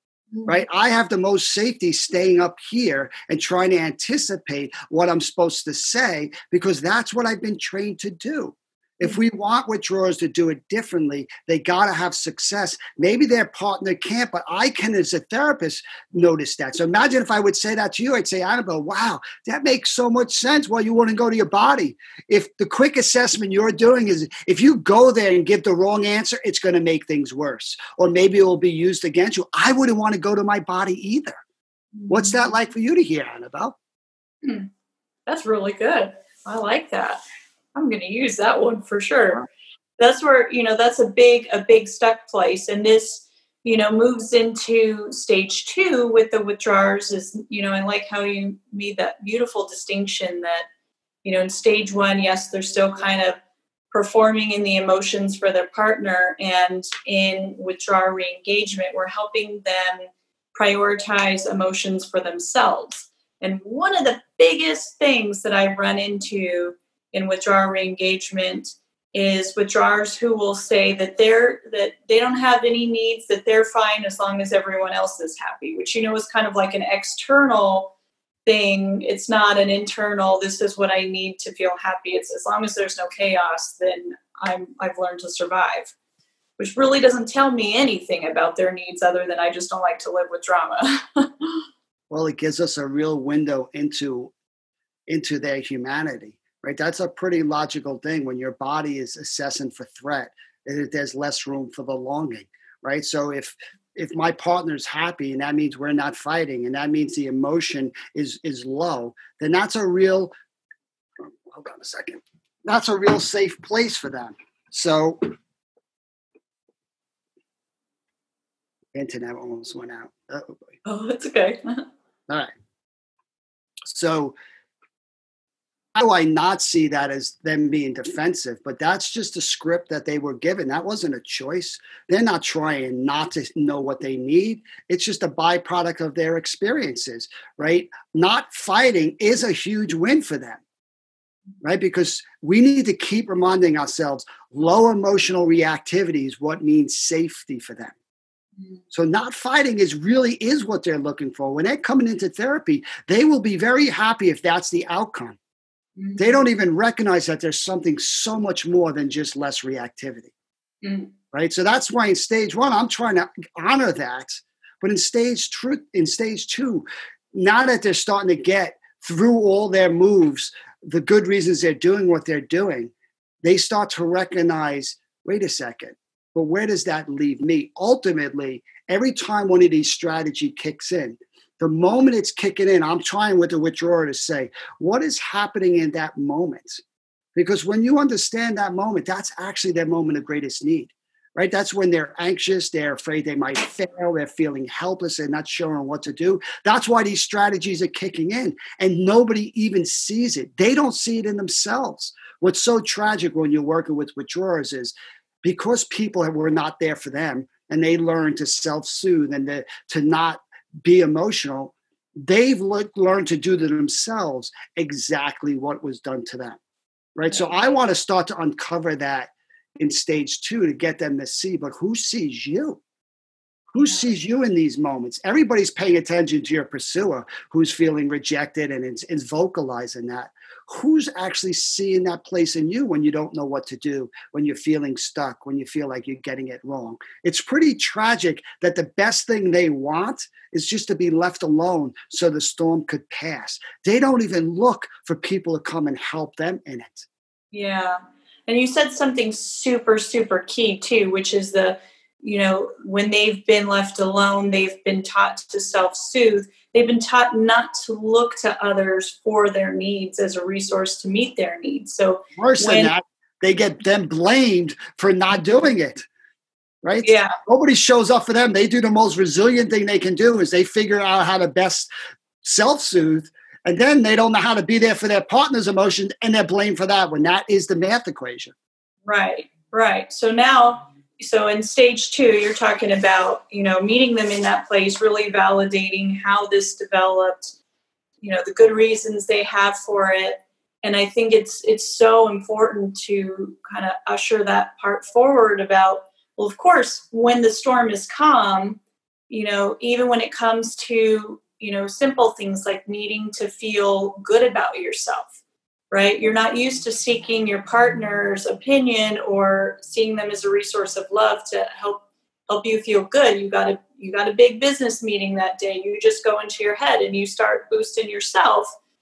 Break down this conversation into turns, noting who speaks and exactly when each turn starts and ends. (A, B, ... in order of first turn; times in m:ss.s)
0:00.3-0:00.6 A
0:00.5-0:31.4 B
0:32.0-0:32.5 A
0:32.1-0:33.8 B
0:34.4-0:34.7 A
0:35.3-0:37.2 A
0:37.8-0:39.4 A
0:40.0-0:50.7 A
0:51.2-0:53.4 A
0:53.9-1:17.9 A
1:18.5-1:25.9 A
1:26.6-1:31.6 A
1:32.1-1:34.3 B
1:35.1-1:50.3 B
1:51.2-1:55.2 B
1:58.9-2:00.6 B
2:00.8-2:01.8 A
2:03.9-2:04.4 B
2:06.0-2:20.6 B
2:21.6-2:27.9 B
2:28.9-2:35.4 B
2:36.0-2:36.4 A
2:36.2-2:40.3 B
2:40.8-2:41.1 A
2:41.3-2:52.9 B
2:53.4-3:06.8 B
3:07.4-3:24.9 B
3:25.4-3:36.6 B
3:37.2-3:42.8 B
3:37.3-3:37.6 A
3:43.7-4:07.1 B
4:07.5-4:22.9 A
4:22.4-4:26.1 B
4:26.8-4:31.9 B
4:27.0-4:27.4 A
4:32.4-4:38.5 B
4:39.1-4:47.6 A
4:48.2-5:05.3 A
5:05.9-5:18.7 A